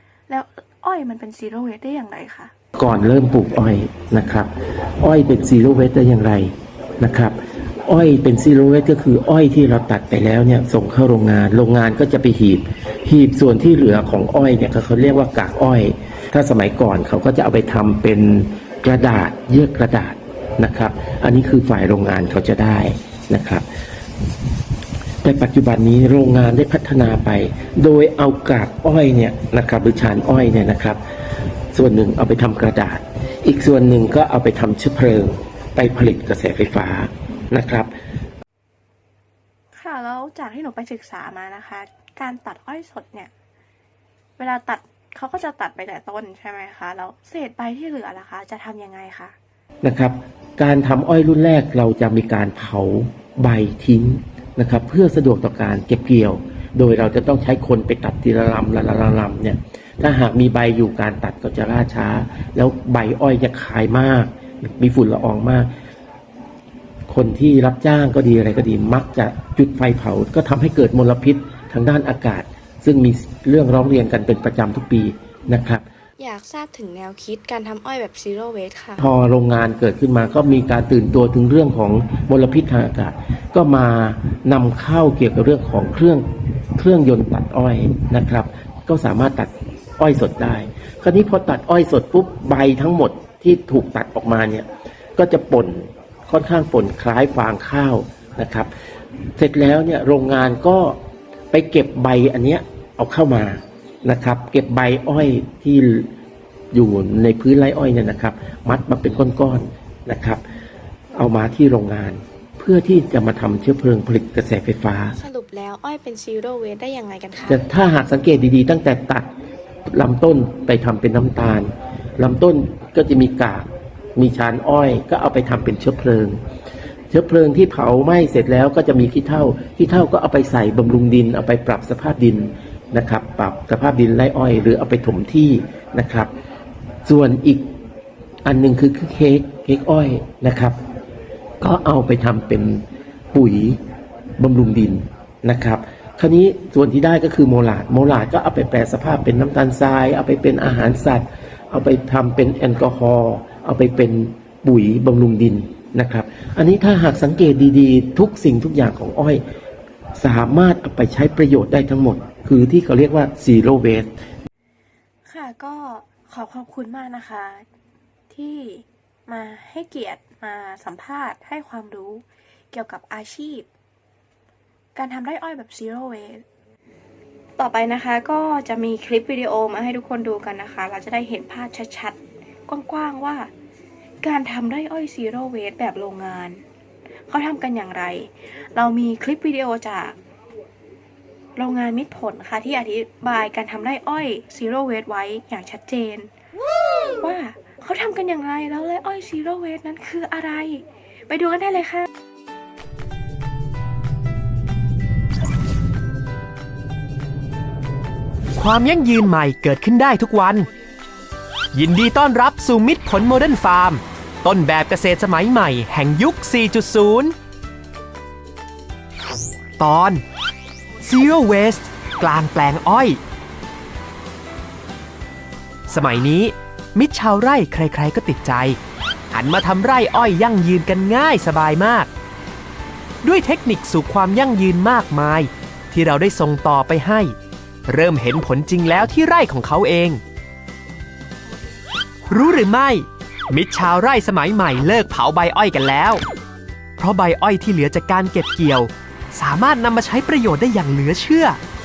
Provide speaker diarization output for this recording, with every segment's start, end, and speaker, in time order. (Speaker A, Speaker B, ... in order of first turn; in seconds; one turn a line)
Speaker A: 0.3-2.5
Speaker B: 2.8-23.7
Speaker B: 25.2-31.0
Speaker B: 31.7-37.9
Speaker A: 39.7-43.3
Speaker A: 44.4-49.3
Speaker B: 49.8-65.7
Speaker B: 67.1-75.8
Speaker A: 76.2-79.0
Speaker B: 79.0-86.2
Speaker B: 86.8-98.7
Speaker B: 99.4-101.0
Speaker B: 101.5-106.1
Speaker B: 106.7-110.4
Speaker B: 111.1-115.2
Speaker A: 115.2-117.6
Speaker B: 117.5-119.3
Speaker B: 119.9-126.4
Speaker B: 127.1-136.3
Speaker B: 137.0-137.7
Speaker B: 138.4-140.8
Speaker B: 141.6-143.8
Speaker B: 144.4-159.4
Speaker B: 160.2-164.1
Speaker A: 165.2-167.7
Speaker A: 168.3-173.7
Speaker A: 174.9-176.4
Speaker A: 177.6-183.5
Speaker A: 184.2-186.6
Speaker A: 187.3-190.2
Speaker A: 191.6-196.3
Speaker A: 197.1-202.1
Speaker C: 208.6-210.7
Speaker C: 211.7-217.3
Speaker C: 219.8-220.2
Speaker C: 221.0-223.2
Speaker C: 225.9-228.8
Speaker C: 229.3-232.1
Speaker C: 233.2-237.3
Speaker C: 237.9-240.2
Speaker C: 242.3-246.2
Speaker C: 247.0-251.6